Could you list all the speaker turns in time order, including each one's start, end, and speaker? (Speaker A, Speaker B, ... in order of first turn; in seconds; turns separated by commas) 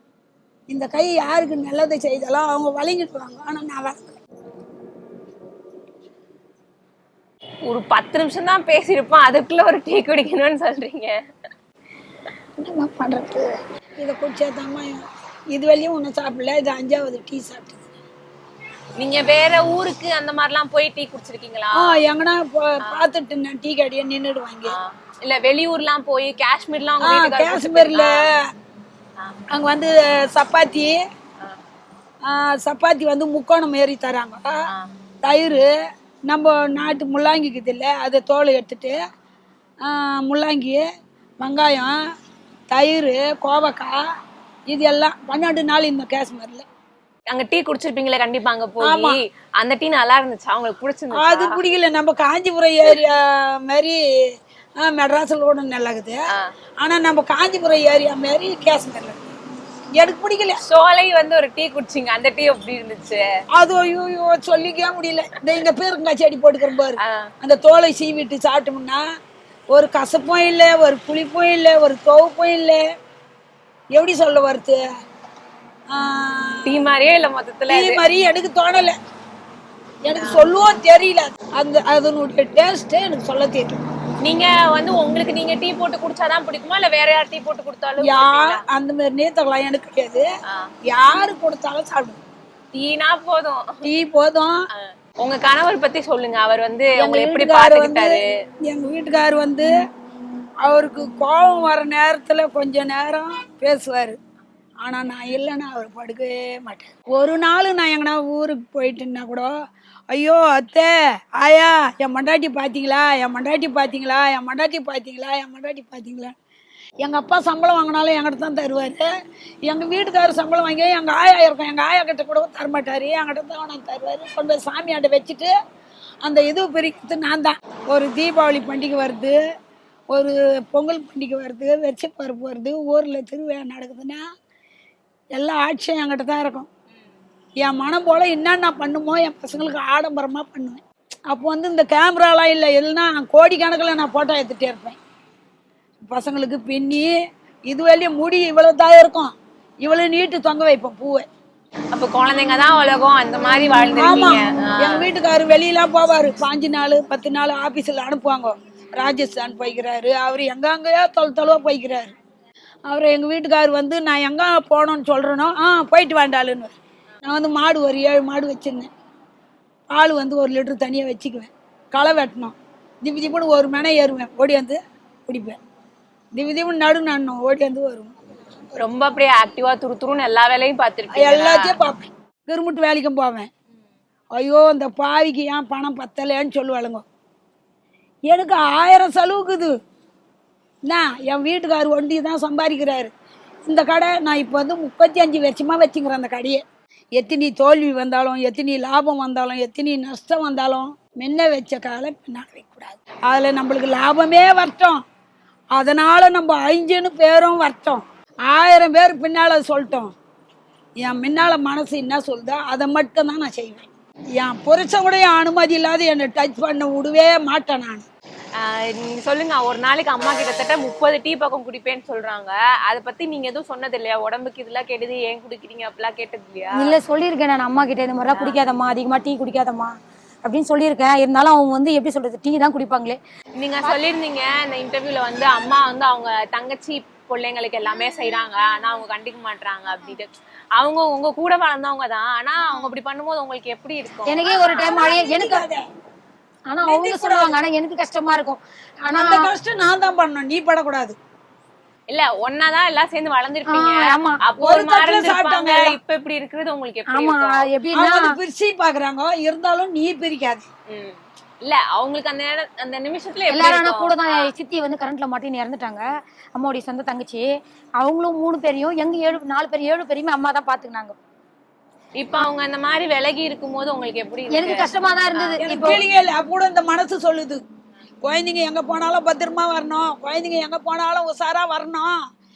Speaker A: 0.7-4.2, Speaker B: 7.7-11.1, Speaker A: 12.6-13.5, Speaker A: 14.0-17.9, Speaker B: 19.0-22.0, Speaker A: 21.7-24.8, Speaker B: 24.7-28.1, Speaker A: 27.0-28.4, Speaker A: 29.5-30.9, Speaker A: 32.3-34.5, Speaker A: 35.2-35.7, Speaker A: 36.3-39.0, Speaker A: 39.9-40.8, Speaker A: 41.4-42.0, Speaker A: 42.7-44.0, Speaker A: 44.7-46.6, Speaker B: 47.3-51.6, Speaker A: 48.8-49.2, Speaker A: 51.1-54.0, Speaker A: 54.8-56.2, Speaker A: 56.8-59.2, Speaker A: 60.0-60.6, Speaker B: 60.6-63.2, Speaker A: 63.5-69.0, Speaker A: 69.7-72.8, Speaker A: 73.9-74.8, Speaker A: 75.9-76.8, Speaker B: 76.7-78.0, Speaker A: 77.7-79.0, Speaker A: 80.0-83.8, Speaker B: 80.2-80.6, Speaker B: 84.2-88.7, Speaker A: 88.0-90.2, Speaker A: 90.9-92.2, Speaker B: 92.7-93.7, Speaker A: 93.8-94.6, Speaker B: 94.7-98.3, Speaker A: 97.0-99.7, Speaker A: 100.7-104.2, Speaker A: 104.8-109.5, Speaker A: 110.1-116.4, Speaker A: 117.0-119.0, Speaker A: 119.7-125.5, Speaker A: 126.2-129.4, Speaker A: 130.1-134.2, Speaker A: 135.4-136.7, Speaker A: 137.6-145.0, Speaker A: 146.0-147.1, Speaker A: 147.7-151.3, Speaker B: 151.9-155.1, Speaker A: 154.0-162.1, Speaker A: 162.9-168.9, Speaker A: 169.9-175.6, Speaker A: 176.3-178.1, Speaker B: 178.8-181.9, Speaker A: 181.1-183.5, Speaker A: 184.3-187.0, Speaker A: 188.3-189.7, Speaker A: 190.9-193.1, Speaker A: 193.7-196.6, Speaker A: 197.2-205.0, Speaker A: 205.7-210.1, Speaker A: 211.0-213.9, Speaker A: 214.4-218.1, Speaker B: 218.7-227.0, Speaker C: 226.8-233.2, Speaker B: 228.4-228.7, Speaker B: 233.6-245.0, Speaker C: 244.3-245.6, Speaker A: 244.7-245.8, Speaker C: 246.7-249.5, Speaker A: 246.8-247.6, Speaker A: 249.1-251.2, Speaker B: 252.1-257.7, Speaker C: 253.7-254.4, Speaker A: 254.6-256.0, Speaker C: 257.1-258.4, Speaker A: 257.9-260.7, Speaker B: 260.9-264.5, Speaker C: 263.5-266.0, Speaker C: 266.6-267.5, Speaker C: 268.0-271.1, Speaker B: 272.2-274.8, Speaker C: 274.5-276.0, Speaker B: 275.4-275.6, Speaker A: 275.6-277.6, Speaker A: 278.2-282.2